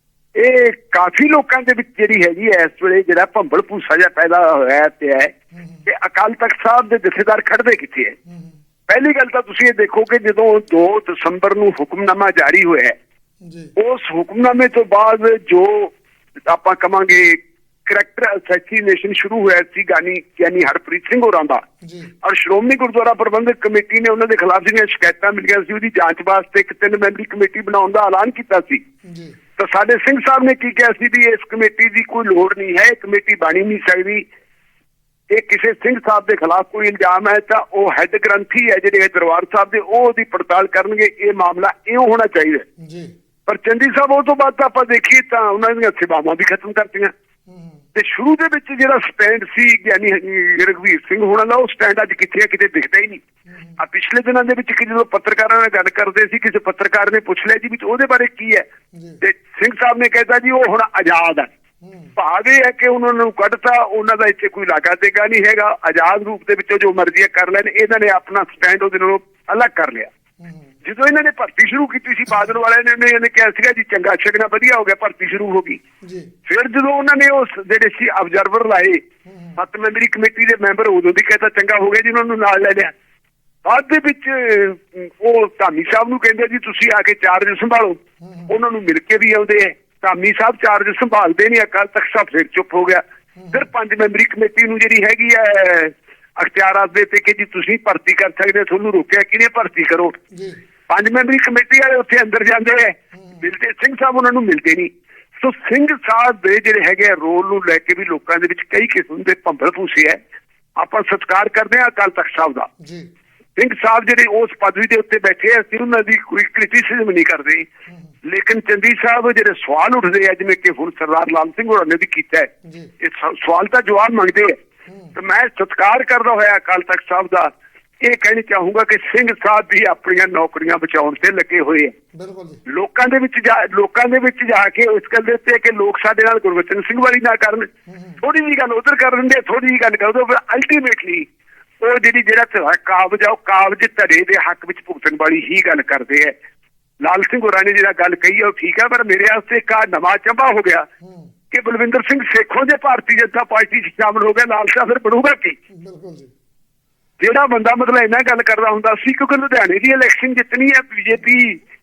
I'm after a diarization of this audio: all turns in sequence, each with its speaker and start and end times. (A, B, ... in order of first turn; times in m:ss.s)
0:00.3-0:05.3 A
0:05.5-0:05.8 B
0:05.8-0:08.2 A
0:08.3-0:08.5 B
0:08.9-0:13.0 A
0:13.4-0:13.7 B
0:13.8-0:16.0 A
0:16.5-0:21.6 A
0:21.8-0:22.1 B
0:22.2-0:28.8 A
0:29.0-0:29.4 B
0:29.6-0:34.2 A
0:35.3-0:42.6 A
0:42.8-0:43.1 B
0:43.4-0:47.1 A
0:47.5-0:47.8 B
0:47.9-0:53.2 A
0:53.5-0:53.8 B
0:53.8-0:58.7 A
0:58.9-0:59.2 B
0:59.2-1:01.5 A
1:01.8-1:02.1 B
1:02.2-1:10.1 A
1:10.4-1:10.7 B
1:10.8-1:15.8 A
1:16.0-1:16.3 B
1:16.4-1:19.0 A
1:19.2-1:19.6 B
1:19.6-1:22.9 A
1:23.6-1:40.2 A
1:28.2-1:28.5 B
1:40.3-1:40.6 B
1:40.9-1:50.2 A
1:43.1-1:43.4 B
1:50.8-1:52.7 A
1:52.8-1:53.1 B
1:53.6-1:57.7 A
1:58.2-2:04.6 A
2:02.6-2:02.9 B
2:04.9-2:05.1 B
2:05.1-2:11.9 A
2:12.1-2:12.6 B
2:12.7-2:17.7 A
2:17.9-2:18.2 B
2:18.2-2:21.3 A
2:21.8-2:26.4 A
2:27.0-2:30.9 A
2:31.0-2:31.3 B
2:31.5-2:35.6 A
2:35.7-2:36.3 B
2:37.2-2:41.6 A